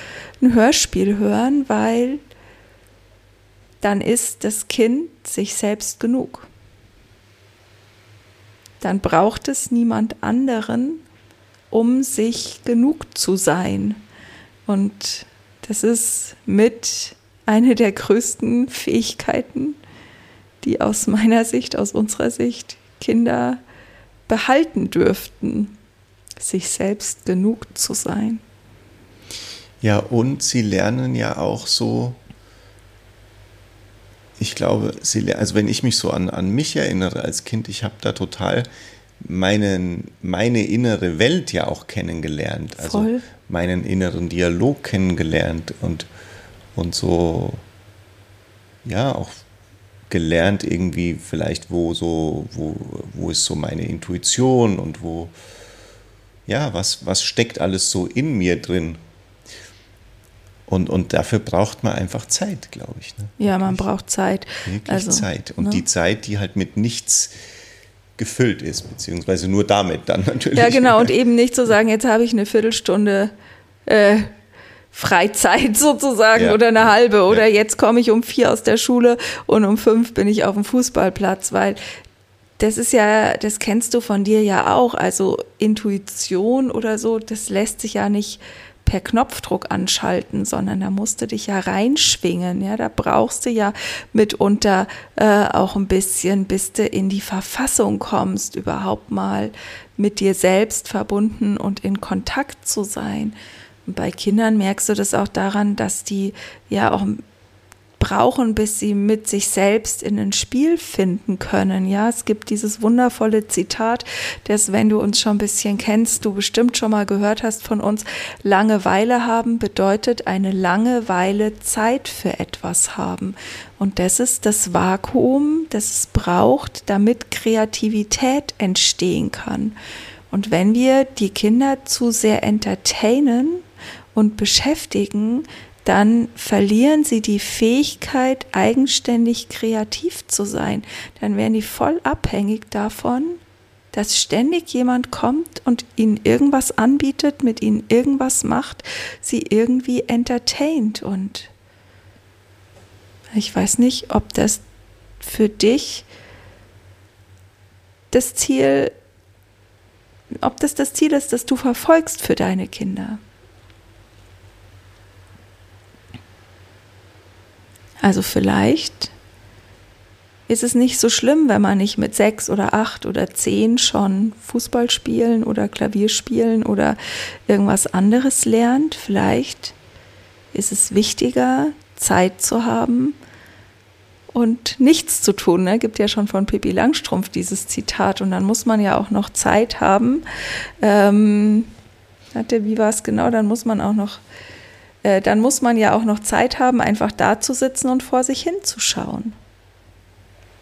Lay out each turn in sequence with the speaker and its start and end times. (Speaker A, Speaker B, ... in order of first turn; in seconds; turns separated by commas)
Speaker A: 0.4-2.2, Speaker A: 3.8-6.5, Speaker A: 8.8-11.0, Speaker A: 11.7-14.0, Speaker A: 14.7-19.8, Speaker A: 20.6-23.6, Speaker A: 24.3-25.8, Speaker A: 26.4-28.4, Speaker B: 29.8-32.2, Speaker B: 34.4-38.7, Speaker B: 39.2-46.1, Speaker A: 42.8-43.3, Speaker B: 46.7-47.6, Speaker B: 48.8-49.5, Speaker B: 50.1-55.3, Speaker B: 56.5-59.0, Speaker B: 60.7-63.8, Speaker A: 63.4-65.8, Speaker B: 64.6-67.3, Speaker B: 68.2-71.1, Speaker A: 70.5-73.3, Speaker A: 73.8-74.3, Speaker A: 74.9-81.8, Speaker B: 76.3-76.6, Speaker A: 82.6-103.3, Speaker A: 103.9-107.2, Speaker A: 108.0-129.8, Speaker A: 130.3-143.4, Speaker A: 143.9-151.5, Speaker A: 153.3-154.6, Speaker A: 155.2-156.1, Speaker A: 158.1-158.9, Speaker A: 160.4-163.2, Speaker A: 168.0-169.1, Speaker A: 170.5-179.8, Speaker A: 180.5-183.2, Speaker A: 184.3-190.2, Speaker A: 190.8-191.7, Speaker A: 192.3-194.2, Speaker A: 195.0-199.4